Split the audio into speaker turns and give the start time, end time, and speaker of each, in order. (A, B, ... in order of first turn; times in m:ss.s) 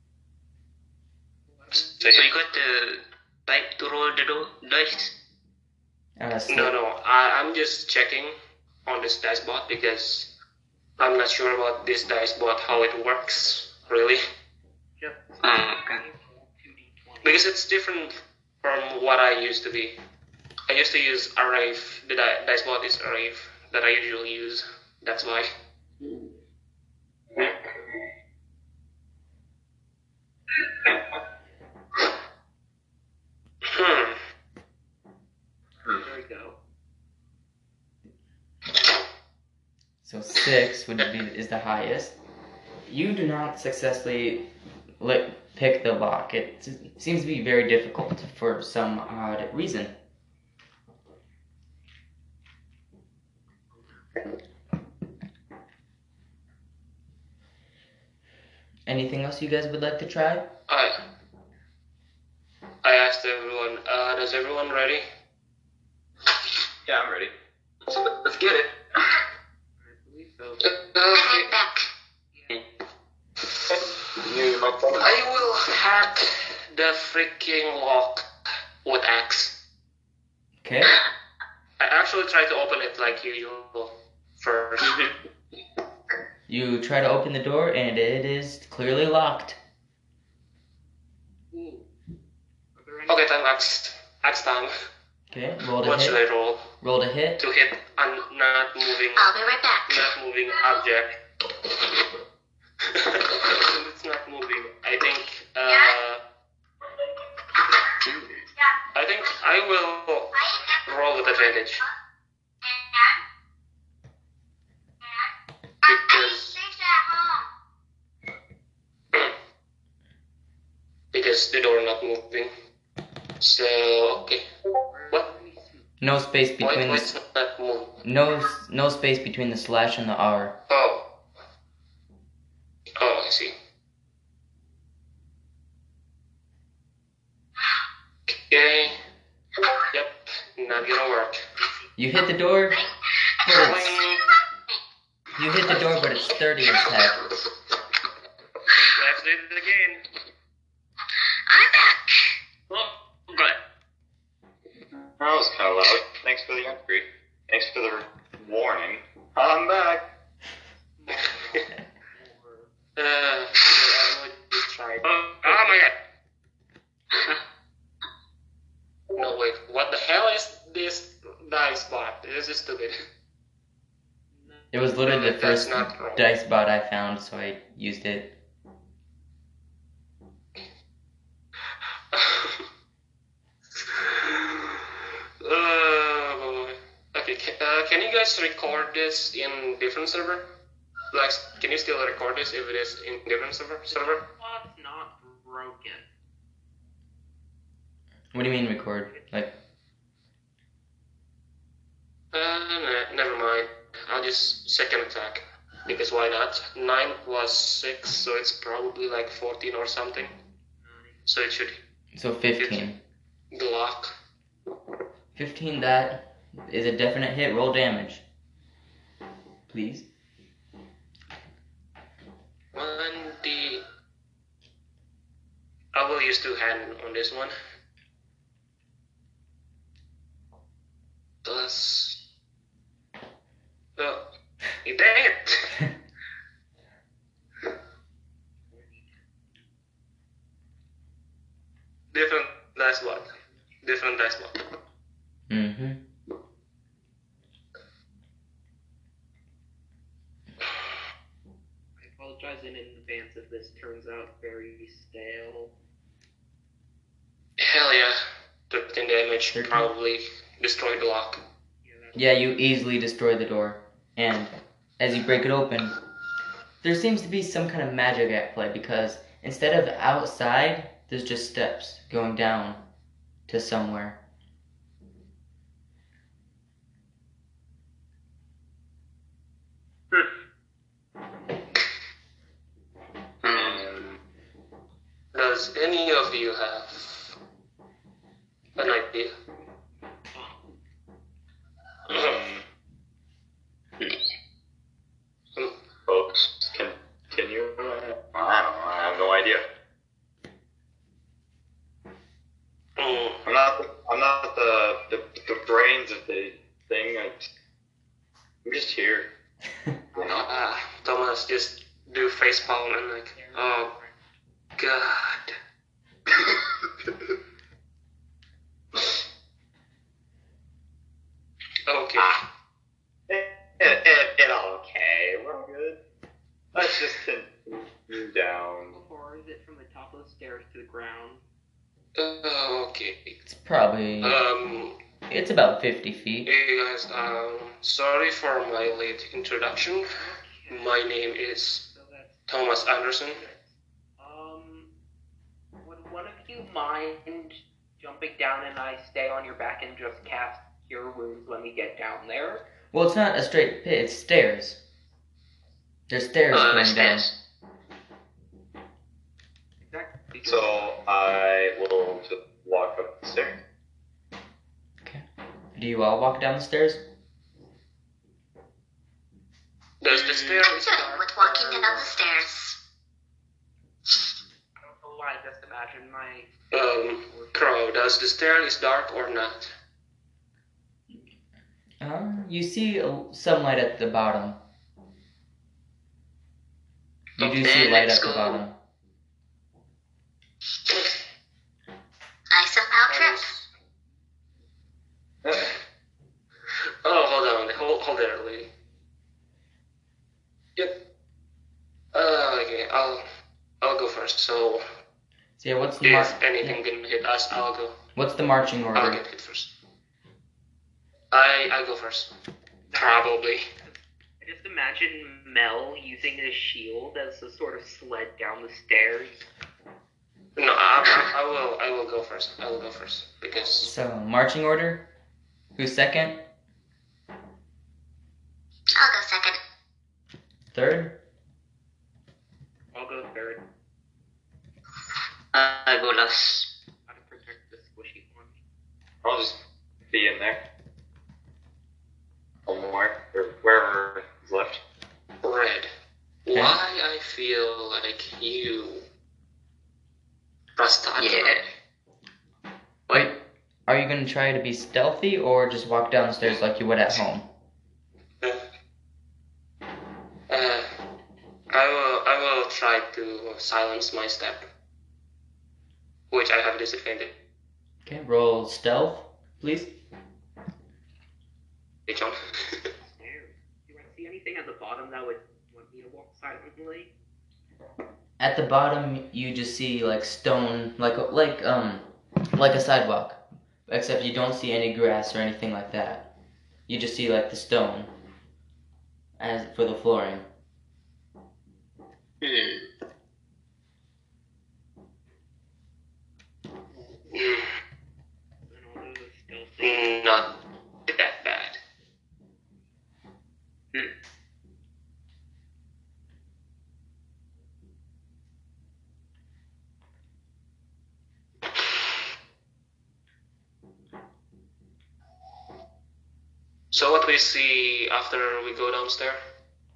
0:01.5-0:02.1 A
0:01.8-0:02.3 B
0:02.0-0:05.1 C
0:06.2-0:06.7 D
0:06.5-0:10.3 B
0:11.0-0:14.2 B
0:13.8-0:14.2 A
0:15.0-0:17.4 A
0:15.4-0:16.0 C
0:17.2-0:19.9 B
0:20.7-0:25.5 B
0:26.0-0:26.3 C
0:27.3-0:28.0 C
0:33.6-0:34.2 B
0:35.8-0:36.6 A
0:40.0-0:42.2 D
0:42.8-0:44.5 D
0:45.0-0:49.9 D
0:53.7-0:54.1 A
0:58.9-1:00.5 D
1:00.7-1:00.9 B
1:02.8-1:05.0 B
1:06.8-1:07.3 E
1:07.9-1:08.6 B
1:09.8-1:10.7 A
1:10.6-1:11.5 B
1:11.1-1:11.9 F
1:12.3-1:12.6 A
1:13.7-1:15.2 E
1:15.0-1:18.2 B
1:18.8-1:19.5 B
1:20.6-1:20.9 D
1:21.8-1:25.0 B
1:24.8-1:25.2 C
1:26.5-1:29.6 D
1:31.5-1:31.9 A
1:32.8-1:33.4 A
1:33.1-1:34.7 B
1:35.3-1:36.2 D
1:35.8-1:36.6 B
1:36.8-1:37.4 D
1:37.4-1:39.3 B
1:39.2-1:40.1 F
1:39.9-1:41.1 B
1:42.9-1:46.2 B
1:45.6-1:45.9 F
1:48.0-1:48.4 C
1:48.9-1:51.8 B
1:50.4-1:50.8 F
1:52.6-1:53.2 F
1:55.8-1:57.4 F
1:55.8-1:56.6 B
2:01.1-2:02.5 B
2:03.4-2:04.4 B
2:04.9-2:05.9 A
2:06.0-2:07.1 D
2:06.6-2:07.9 B
2:08.0-2:10.6 D
2:10.7-2:11.0 B
2:13.0-2:13.5 B
2:18.3-2:18.9 B
2:19.9-2:21.4 B
2:22.0-2:22.8 D
2:23.4-2:24.0 F
2:23.4-2:24.0 D
2:23.5-2:24.2 B
2:25.3-2:27.2 D
2:25.7-2:27.0 F
2:28.9-2:30.0 B
2:31.5-2:32.4 F
2:32.7-2:33.5 B
2:35.2-2:40.0 E
2:41.0-2:42.7 A
2:43.0-2:45.9 B
2:47.1-2:47.4 C
2:49.1-2:52.9 B
2:54.3-2:54.8 A
2:54.7-2:58.3 D
2:55.0-2:56.3 B
3:02.1-3:02.6 B
3:03.8-3:04.9 B
3:05.4-3:10.4 B
3:11.1-3:14.2 B
3:13.9-3:16.1 A
3:18.3-3:19.5 D
3:19.1-3:19.4 A
3:22.3-3:30.3 B
3:30.8-3:31.2 A
3:31.2-3:31.8 B
3:32.1-3:33.0 D
3:32.6-3:32.8 B
3:33.5-3:34.1 B
3:35.3-3:38.2 D
3:39.7-3:40.1 D
3:42.7-3:43.8 B
3:45.9-3:47.5 B
3:51.4-3:52.2 B
3:54.8-3:55.8 B
3:58.7-3:59.1 A
4:02.1-4:03.2 B
4:03.8-4:04.5 B
4:05.5-4:06.0 D
4:12.0-4:15.7 A
4:17.6-4:18.1 B
4:18.7-4:21.4 B
4:19.5-4:19.9 D
4:21.8-4:22.4 A
4:22.1-4:25.9 D
4:26.8-4:32.8 D
4:33.5-4:34.2 D
4:43.4-4:44.0 C
4:43.5-4:44.1 E
4:45.3-4:47.3 B
4:48.8-4:49.3 B
4:50.3-4:50.7 A
4:52.1-4:52.6 E
4:52.1-4:52.4 B
4:56.1-4:59.6 E
5:03.0-5:03.4 B
5:03.4-5:07.5 E
5:08.6-5:09.3 E
5:10.1-5:10.5 E
5:10.2-5:10.5 A
5:10.2-5:13.9 B
5:13.3-5:14.1 A
5:14.8-5:15.5 B
5:21.9-5:22.4 B
5:23.3-5:26.0 E
5:26.7-5:29.0 E
5:28.9-5:31.4 A
5:32.2-5:33.4 B
5:33.4-5:34.4 D
5:34.2-5:34.9 B
5:35.3-5:36.5 D
5:36.4-5:40.0 B
5:40.1-5:41.1 A
5:40.7-5:41.8 B
5:41.8-5:42.4 A
5:42.5-5:43.4 B
5:43.3-5:44.9 A
5:45.8-5:52.6 A
5:52.9-5:54.8 D
5:56.1-5:57.3 D
5:56.5-5:57.3 C
5:59.9-6:00.9 A
6:00.4-6:03.6 E
6:05.8-6:07.0 D
6:10.0-6:12.1 B
6:10.1-6:10.4 C
6:10.6-6:12.8 F
6:14.8-6:16.5 A
6:16.7-6:19.7 B
6:17.2-6:17.7 A
6:22.0-6:24.6 D
6:27.4-6:28.8 D
6:27.4-6:28.6 C
6:32.5-6:33.5 F
6:33.1-6:33.7 B
6:35.4-6:35.7 E
6:37.0-6:38.7 B
6:42.1-6:43.2 B
6:43.8-6:44.8 B
6:45.6-6:46.8 D
6:46.0-6:47.9 B
6:48.2-6:49.2 D
6:48.9-6:49.7 B
6:51.3-6:52.3 B
6:52.9-6:53.3 A
6:52.9-6:53.6 B
6:53.8-6:59.5 A
7:00.6-7:03.9 B
7:03.5-7:03.9 A
7:03.8-7:05.1 D
7:05.8-7:06.4 D
7:08.9-7:09.6 F
7:10.7-7:11.2 D
7:12.9-7:13.6 A
7:15.5-7:16.7 C
7:17.1-7:18.6 A
7:19.2-7:19.6 E
7:20.1-7:20.6 E
7:22.6-7:24.8 E
7:25.4-7:25.9 B
7:26.4-7:29.0 B
7:26.5-7:26.8 D
7:30.8-7:31.6 B
7:31.2-7:31.6 C
7:33.1-7:37.5 D
7:40.5-7:40.8 B
7:41.7-7:44.7 B
7:46.3-7:47.4 B
7:48.0-7:49.9 D
7:52.1-7:52.8 B
7:53.0-7:57.1 A
7:58.4-8:06.3 D
8:06.9-8:08.1 D
8:09.4-8:10.4 D
8:12.4-8:12.8 C
8:17.3-8:17.6 B
8:18.7-8:20.2 A
8:19.8-8:20.5 B
8:21.1-8:21.8 B
8:36.9-8:39.4 B